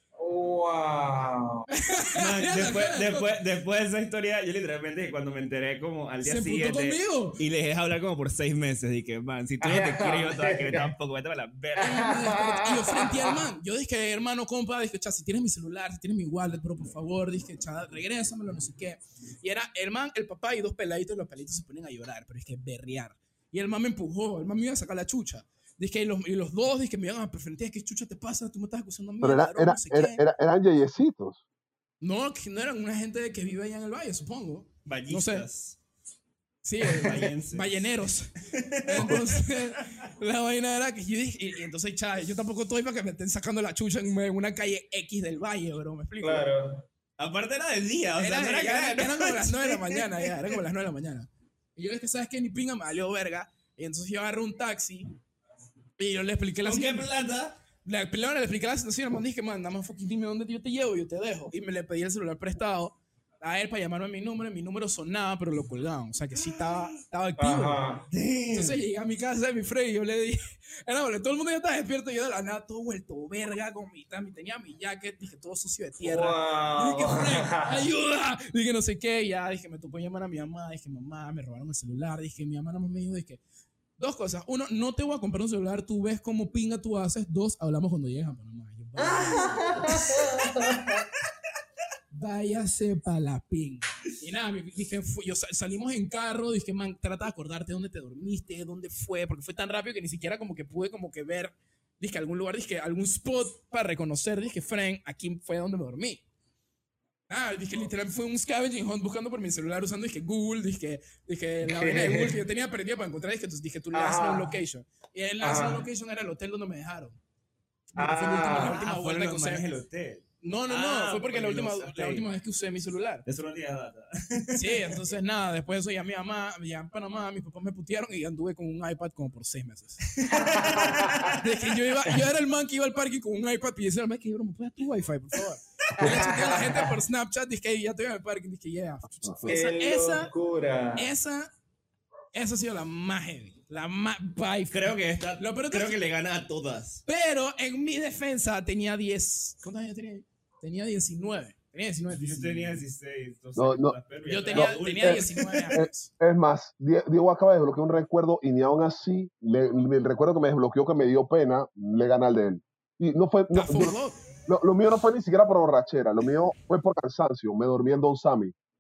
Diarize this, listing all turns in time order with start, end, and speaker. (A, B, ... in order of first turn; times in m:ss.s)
0:00.2-0:01.7 A
0:01.7-0:03.3 B
0:02.1-0:12.1 C
0:06.2-0:07.4 B
0:09.6-0:10.9 A
0:11.8-0:13.4 A
0:11.8-0:30.2 B
0:29.2-0:31.4 D
0:32.0-0:35.4 B
0:34.8-0:35.8 C
0:36.6-0:46.5 B
0:36.9-0:37.9 C
0:38.4-0:39.8 C
0:46.2-0:46.9 A
0:47.2-0:50.6 C
0:48.2-0:55.1 B
0:56.0-0:57.1 B
0:56.6-0:57.6 C
0:57.8-1:07.8 B
1:07.4-1:08.0 A
1:08.1-1:08.8 C
1:08.5-1:23.4 B
1:16.0-1:17.8 A
1:24.0-1:30.1 B
1:29.0-1:31.0 A
1:32.1-1:46.2 B
1:47.3-1:57.2 B
1:51.6-1:52.4 A
1:53.9-1:54.6 A
1:55.4-1:55.8 A
1:57.9-1:59.7 B
1:58.0-1:58.8 A
1:58.5-2:02.3 C
2:00.4-2:03.2 B
2:03.3-2:05.0 C
2:04.5-2:10.1 B
2:10.3-2:11.4 A
2:10.3-2:11.4 C
2:11.4-2:20.3 B
2:16.0-2:16.9 A
2:19.5-2:21.1 A
2:21.0-2:21.5 B
2:22.3-2:26.0 B
2:24.7-2:27.0 C
2:27.1-2:32.8 B
2:32.1-2:35.5 C
2:33.6-2:34.0 D
2:34.3-2:36.1 B
2:34.5-2:44.0 D
2:43.5-2:44.2 B
2:44.5-2:48.5 D